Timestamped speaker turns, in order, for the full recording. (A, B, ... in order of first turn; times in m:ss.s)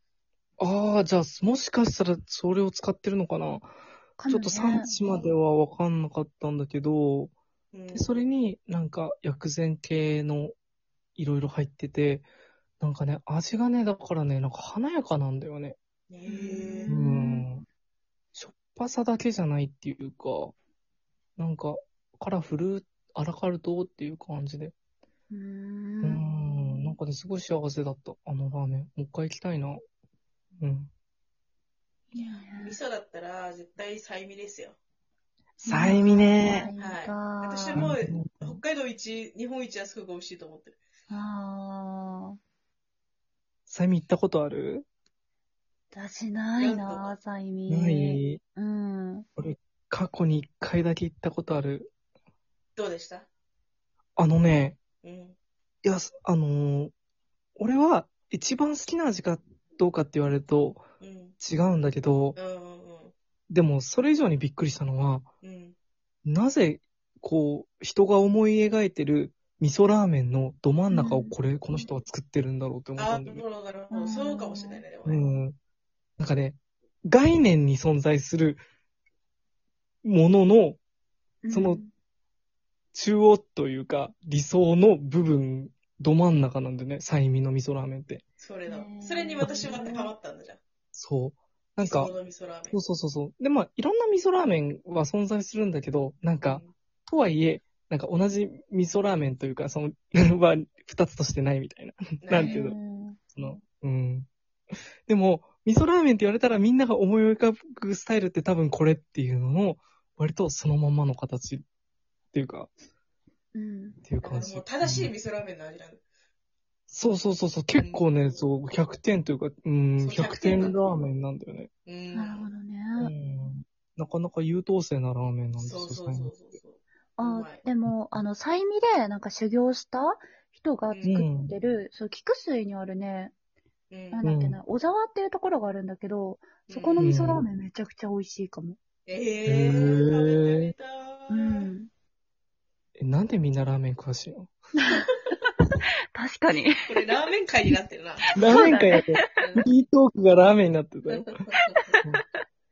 0:00.6-0:03.7 A
0:04.2-0:04.9 B
0:04.2-0:07.3 A
0:07.7-0:08.1 C
0:07.9-0:10.5 A
0:11.2-0:12.3 A
0:12.8-0:15.8 A
0:16.1-0:16.9 C
0:16.2-0:17.5 B
0:16.9-0:17.6 A
0:18.3-0:20.5 A
0:21.4-0:24.7 A
0:25.3-0:26.8 B
0:26.0-0:29.8 A
0:30.6-0:30.9 A
0:32.1-0:32.8 B
0:32.2-0:34.8 C
0:35.6-0:37.9 B
0:35.6-0:36.7 A
0:36.8-0:40.8 C
0:37.8-0:38.6 A
0:41.1-0:42.4 B
0:43.7-0:44.8 A
0:45.9-0:49.2 B
0:46.6-0:47.2 C
0:47.7-0:48.4 A
0:49.4-0:51.9 A
0:52.8-0:53.3 C
0:54.2-0:54.8 A
0:55.0-0:55.4 C
0:55.8-0:56.9 A
0:57.6-1:00.8 A
1:01.0-1:01.4 C
1:01.4-1:02.4 A
1:02.4-1:03.1 C
1:03.5-1:05.3 A
1:05.4-1:05.7 C
1:06.2-1:13.4 A
1:10.9-1:11.9 B
1:13.0-1:15.2 C
1:13.9-1:14.8 B
1:15.0-1:15.6 A
1:16.2-1:18.6 A
1:20.0-1:20.8 A
1:21.4-1:21.9 B
1:21.5-1:21.8 A
1:22.9-1:28.2 A
1:28.4-1:30.6 C
1:28.6-1:30.1 B
1:30.9-1:32.2 A
1:31.8-1:32.8 C
1:32.7-1:42.8 A
1:36.4-1:36.7 C
1:42.2-1:42.6 C
1:42.4-1:43.2 B
1:43.3-1:44.3 A
1:45.1-1:51.6 A
1:52.3-1:52.7 A
1:53.5-1:54.0 B
1:54.0-1:55.1 A
1:54.2-1:56.0 C
1:56.9-2:01.7 A
1:57.8-1:58.2 C
2:00.0-2:00.9 C
2:01.8-2:02.5 C
2:02.1-2:03.1 B
2:03.0-2:06.3 A
2:05.6-2:07.6 C
2:07.2-2:13.3 B
2:10.9-2:11.2 C
2:11.0-2:11.5 A
2:13.9-2:14.2 C
2:14.1-2:18.8 B
2:14.2-2:14.6 A
2:16.7-2:17.1 C
2:17.0-2:17.4 A
2:19.0-2:21.7 C
2:19.4-2:20.7 A
2:21.3-2:21.9 B
2:23.0-2:24.5 A
2:24.8-2:25.1 B
2:26.1-2:26.8 B
2:26.8-2:28.7 C
2:28.3-2:29.3 B
2:28.3-2:31.4 A
2:29.4-2:29.6 C
2:31.1-2:32.0 C